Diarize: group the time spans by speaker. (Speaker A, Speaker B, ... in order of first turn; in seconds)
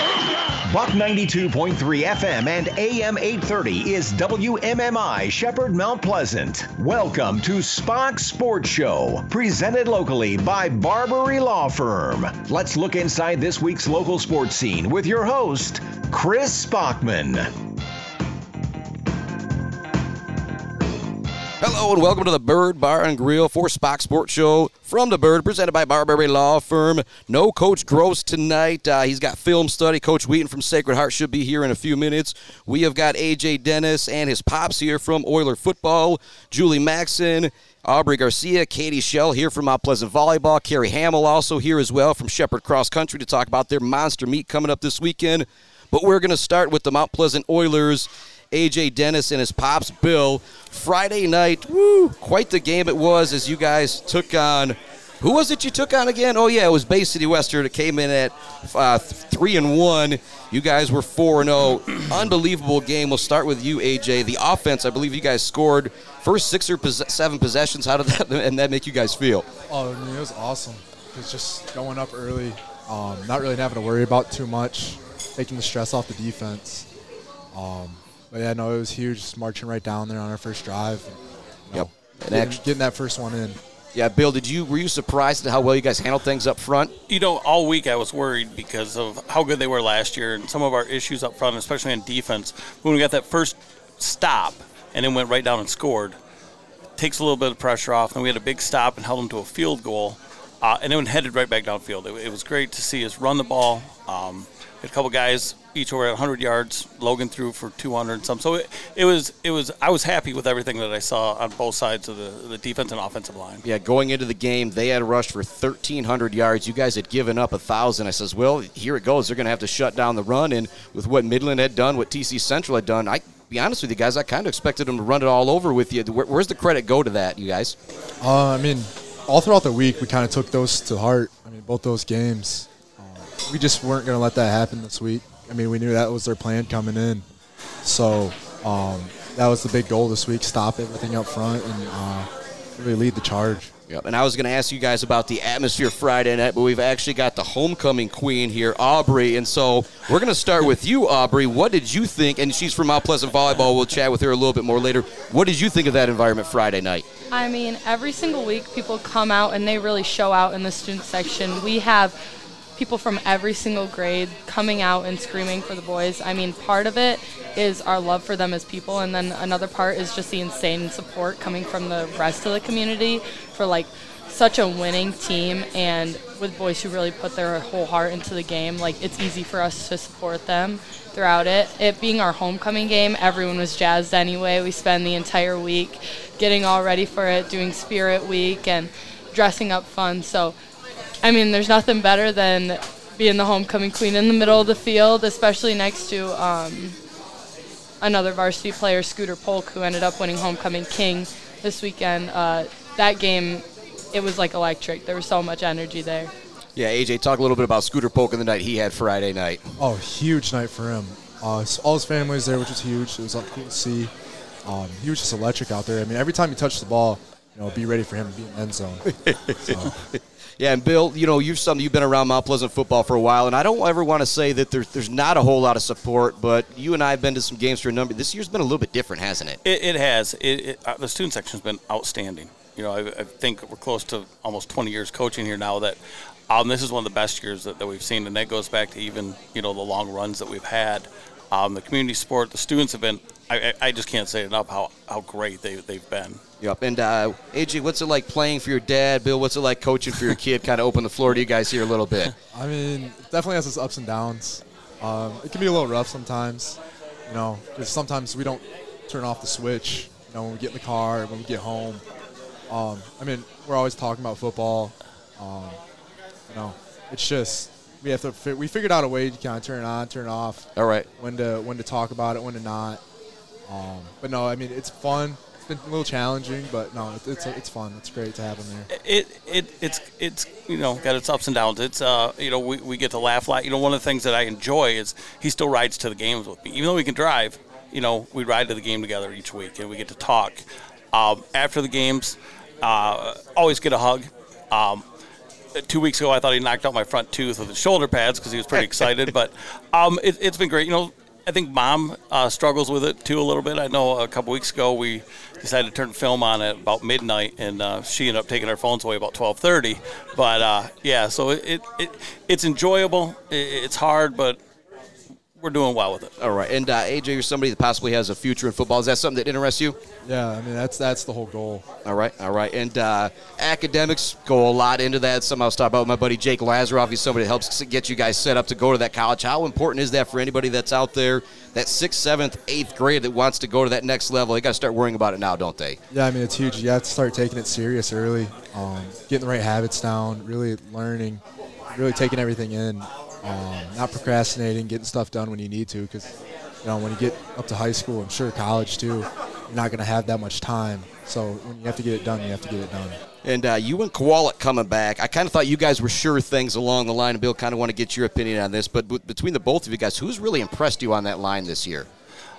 Speaker A: 0.6-17.5
Speaker B: 21.6-69.5, 81.7-82.6, 83.9-86.9, 113.6-127.8, 143.9-157.1, 206.8-209.6, 219.2-219.9, 220.6-229.6, 246.6-252.3, 270.8-271.1, 316.4-320.0, 322.1-336.0, 353.4-362.1
Speaker C: 69.7-76.9, 77.5-83.6, 128.2-137.2, 137.8-143.7, 209.8-214.1, 214.7-219.1, 219.6-219.9, 252.5-262.0, 262.7-265.8, 266.5-273.0, 273.7-278.9, 320.2-321.8, 336.1-341.4, 341.9-353.2
Speaker D: 87.1-96.2, 97.0-113.6, 229.7-236.0, 236.5-246.4, 278.9-295.0, 295.8-314.6, 315.6-316.3
Speaker E: 157.3-162.2, 162.8-190.6, 191.2-197.0, 198.0-206.3